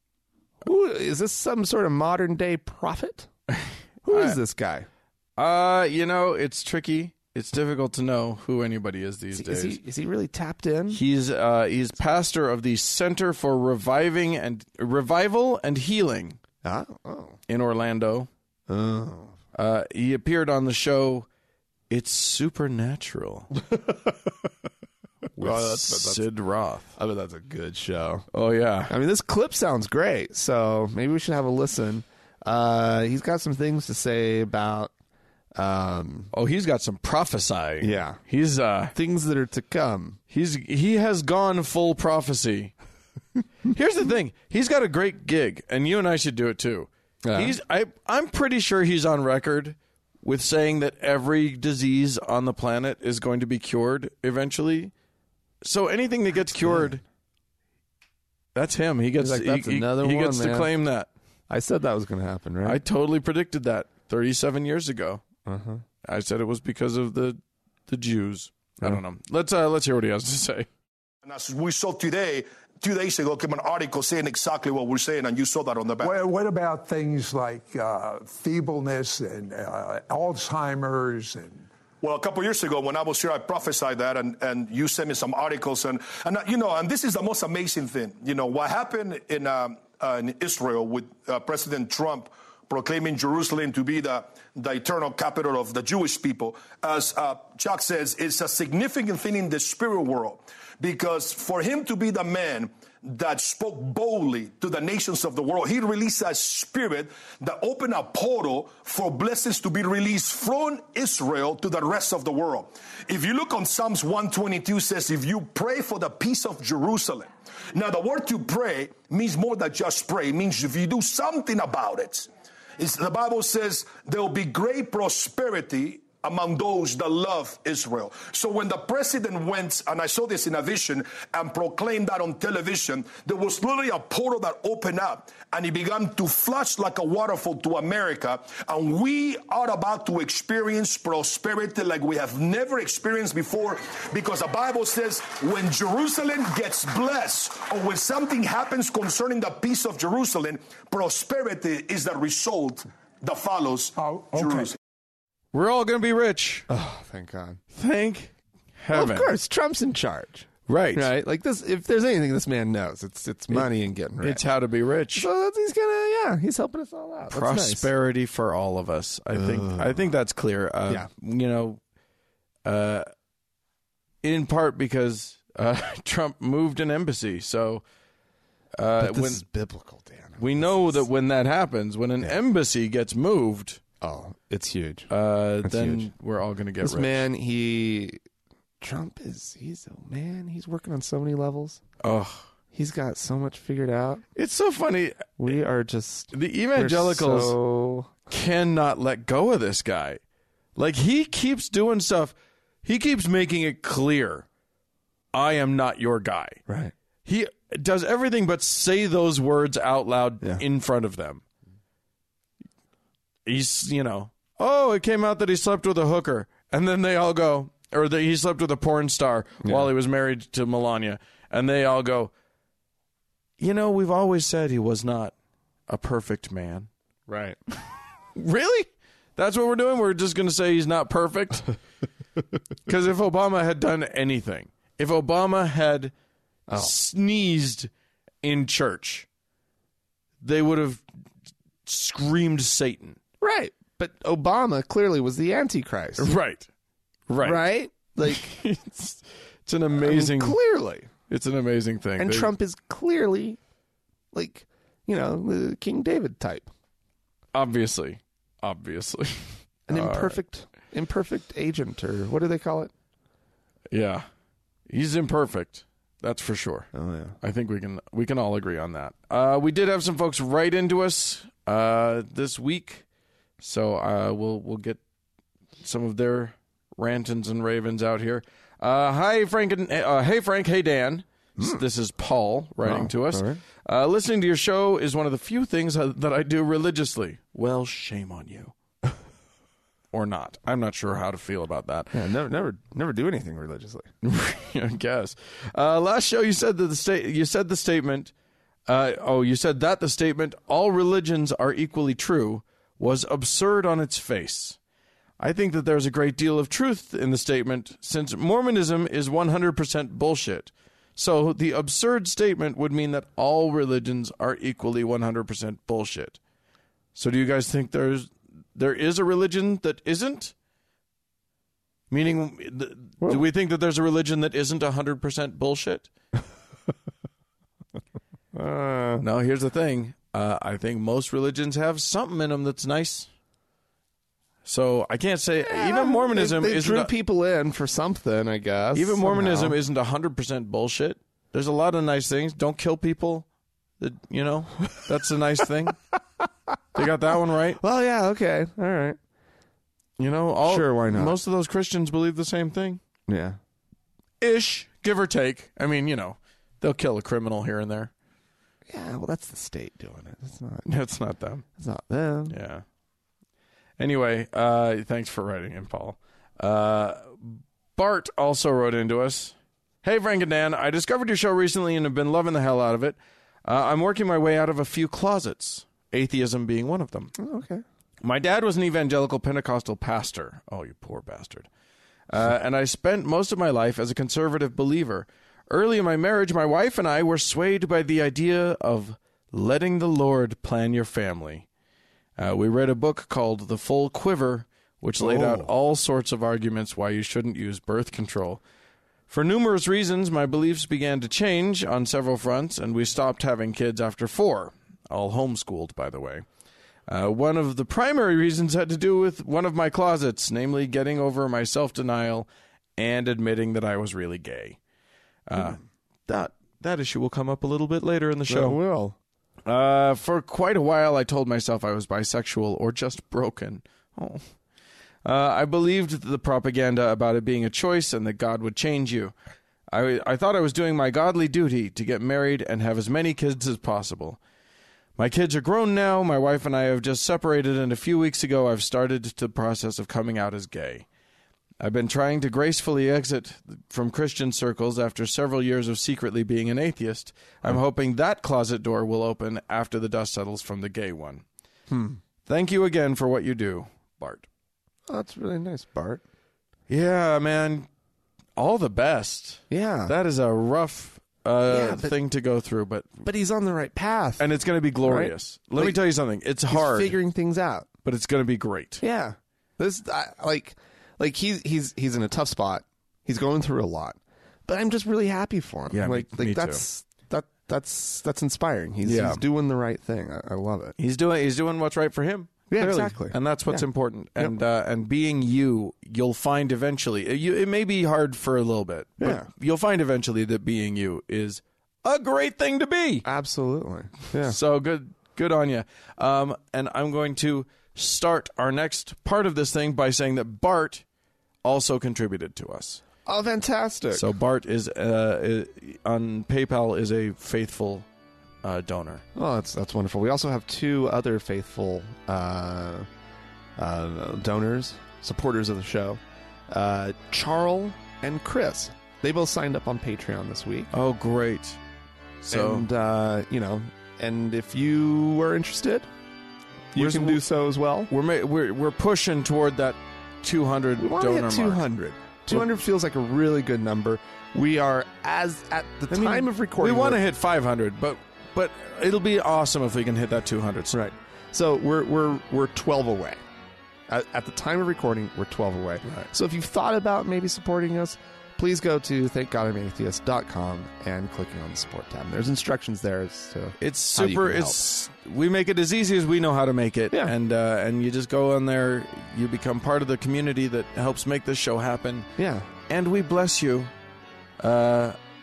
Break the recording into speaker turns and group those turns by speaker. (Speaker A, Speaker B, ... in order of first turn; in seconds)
Speaker A: 0.6-3.3, 4.0-4.9, 9.3-11.0, 16.6-17.4, 18.7-19.4, 25.4-26.3, 27.0-28.3, 28.9-34.9, 35.5-36.3, 37.8-38.2, 38.9-40.2, 47.2-47.6, 56.6-56.9, 59.2-60.7, 61.5-62.8, 65.5-65.8, 156.7-157.6, 158.9-164.5, 165.2-167.9, 169.3-170.1, 179.0-181.1, 184.0-185.1, 185.6-186.1, 186.8-188.2, 188.8-191.8, 192.7-194.2, 195.4-198.1, 206.7-206.9, 219.6-219.9, 227.3-227.6, 236.7-236.9, 243.4-246.3, 247.4-248.6, 250.0-251.1, 252.2-253.6, 254.3-256.7, 259.9-262.9, 266.9-267.4, 281.6-281.8, 282.8-283.6, 292.1-294.1, 328.5-329.2, 335.6-339.8, 347.8-349.2, 350.6-351.4, 353.3-353.6, 358.9-360.9, 361.8-362.6, 377.4-377.8, 395.2-395.7, 418.5-419.2, 451.9-452.2, 455.1-456.2, 459.7-460.1, 461.7-462.1, 463.2-464.4, 465.0-466.0, 466.7-467.9, 469.0-481.0, 482.7-483.9, 489.2-489.5, 493.2-494.6, 503.3-504.3, 509.4-513.1, 513.8-520.9, 522.5-526.1, 527.0-528.1, 531.0-537.2, 540.9-543.4, 544.1-554.8, 562.4-562.7
Speaker B: 4.1-4.4, 5.4-9.8, 10.9-16.4, 17.5-18.3, 19.5-21.3, 21.9-23.5, 25.4-27.0, 28.3-28.9, 36.3-38.9, 40.3-42.8, 43.7-54.9, 55.6-57.0, 58.5-61.1, 62.6-65.2, 66.0-70.7, 155.5-156.7, 157.7-159.3, 160.7-161.1, 164.2-165.3, 167.3-171.8, 172.7-173.1, 174.2-177.8, 178.8-179.4, 180.4-183.8, 185.1-187.2, 192.0-192.5, 194.3-195.4, 196.3-197.6, 198.3-200.2, 200.8-204.5, 205.3-206.6, 207.2-211.4, 213.5-222.3, 223.6-225.3, 225.9-226.9, 228.4-231.7, 232.9-236.1, 236.7-237.9, 238.4-239.3, 240.4-241.0, 241.9-243.2, 246.2-246.7, 247.3-247.6, 248.2-250.6, 251.3-252.5, 257.5-260.4, 263.9-264.3, 264.9-273.1, 273.6-275.0, 275.8-288.8, 290.1-292.2, 294.2-298.3, 298.9-304.8, 305.4-316.4, 317.1-320.5, 322.1-326.1, 329.2-333.3, 334.6-337.1, 338.9-343.5, 344.0-346.0, 346.9-347.8, 350.2-353.0, 354.4-358.1, 360.9-361.6, 362.5-362.8, 364.0-377.3, 378.2-381.7, 382.3-391.7, 392.4-398.6, 399.3-406.4, 407.1-414.8, 415.5-418.8, 419.7-424.4, 425.2-429.3, 429.9-434.4, 435.2-441.1, 441.8-451.4, 452.5-454.5, 456.9-457.9, 458.6-463.2, 464.4-467.2, 468.0-469.0, 475.9-476.8, 479.0-479.4, 481.0-493.2, 494.4-501.0, 501.6-503.0, 504.1-508.1, 508.6-509.2, 520.9-521.8, 522.4-522.9, 527.0-527.4, 528.1-531.8, 536.1-541.0, 553.8-562.3, 562.9-563.9, 564.6-565.2
Speaker C: 71.2-76.2, 82.0-154.8
Speaker D: 76.0-81.7, 154.0-154.7